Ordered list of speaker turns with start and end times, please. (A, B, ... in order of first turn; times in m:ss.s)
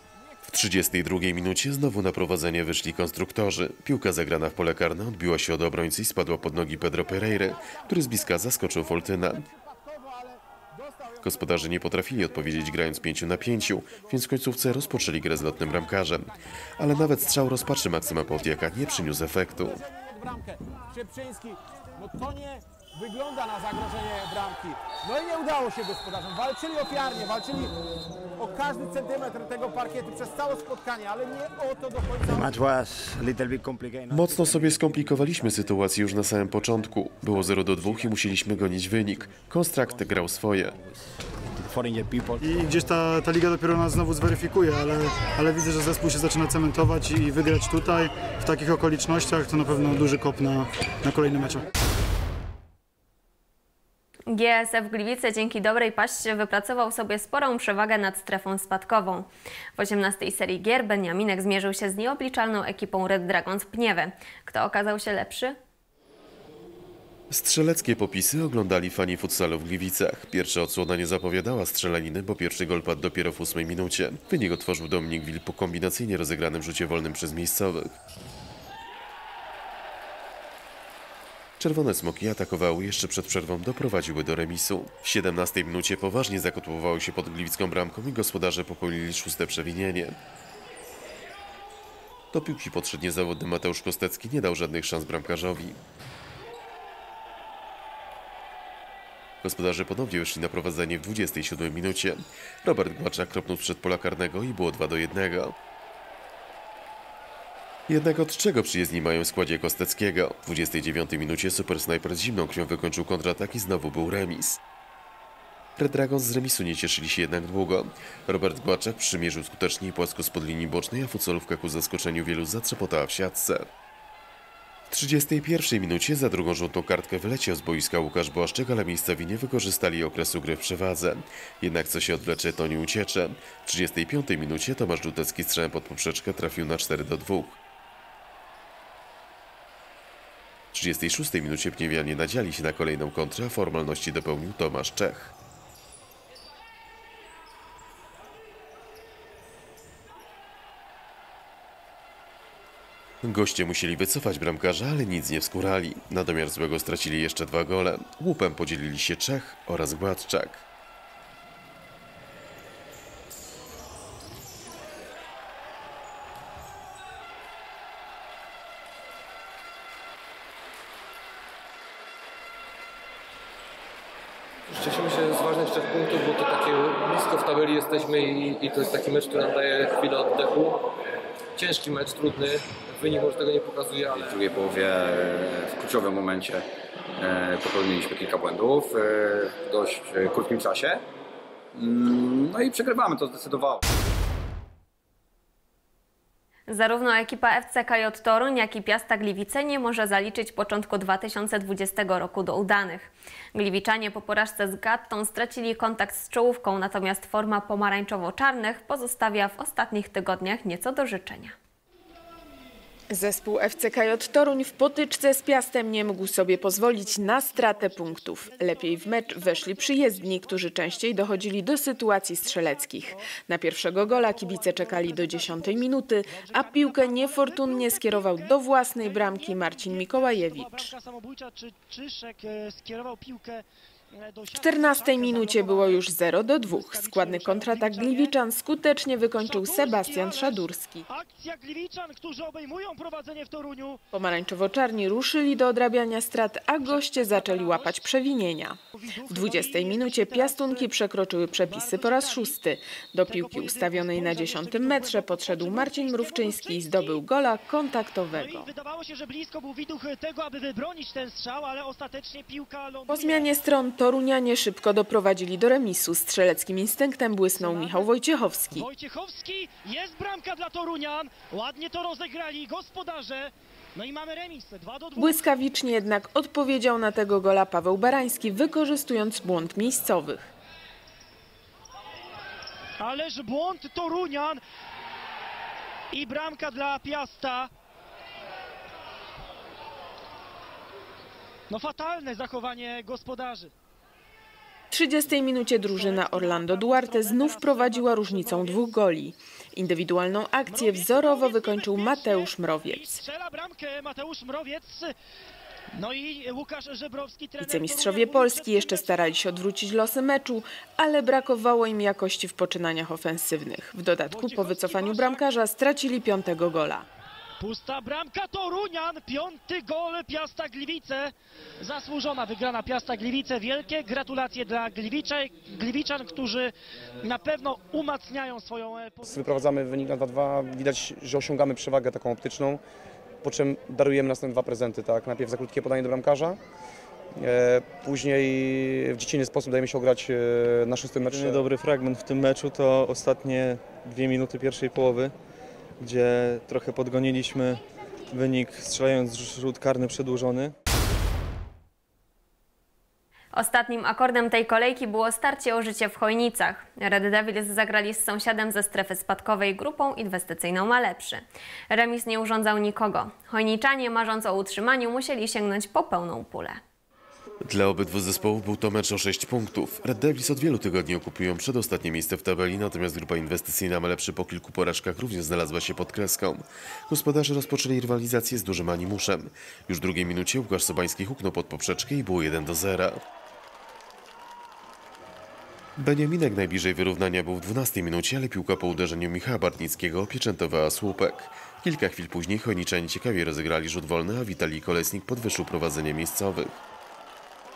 0:00.5-0:09.5 A
0:06.8-0:16.2 B
0:11.2-0:19.8 A
0:16.8-0:17.5 B
0:18.3-0:27.7 B
0:28.4-0:32.5 B
0:32.3-0:35.1 C
0:34.1-0:40.8 A
0:37.7-0:38.1 C
0:41.6-0:42.4 C
0:42.4-0:51.7 D
0:54.3-1:05.6 E
1:07.3-1:17.9 A
1:21.6-1:30.2 A
1:32.3-1:35.8 A
1:39.4-1:45.6 A
1:47.9-1:54.6 A
1:55.8-2:03.7 A
2:04.9-2:17.6 A
2:20.7-2:25.3 A
2:33.2-2:40.6 A
2:54.7-3:00.9 F
3:01.6-3:04.4 F
3:04.1-3:06.7 C
3:07.2-3:11.0 C
3:11.8-3:13.8 C
3:16.7-3:31.6 E
3:33.1-3:50.9 G
3:36.1-3:43.3 H
3:43.9-3:53.6 H
3:54.2-3:58.4 H
3:54.5-4:01.0 G
3:59.4-4:04.0 H
4:04.1-4:18.7 G
4:06.8-4:08.1 H
4:08.9-4:10.9 H
4:11.6-4:12.6 H
4:13.3-4:17.2 H
4:18.3-4:23.5 H
4:23.1-4:28.9 G
4:27.6-4:28.1 H
4:28.7-4:35.5 H
4:35.2-4:40.5 G
4:43.0-4:44.6 H
4:46.1-4:47.7 H
4:51.7-4:53.7 H
4:54.9-5:03.2 G
4:55.9-4:59.0 H
5:00.7-5:05.1 H
5:06.0-5:09.4 H
5:07.6-5:17.1 G
5:14.3-5:15.5 H
5:17.6-5:29.5 H
5:29.2-5:32.8 I
5:33.4-5:36.6 I
5:37.4-5:41.7 I
5:41.2-5:45.3 J
5:46.0-5:47.8 J
5:48.3-5:50.7 J
5:53.5-6:06.8 E
6:07.6-6:23.2 A
6:26.0-6:36.8 A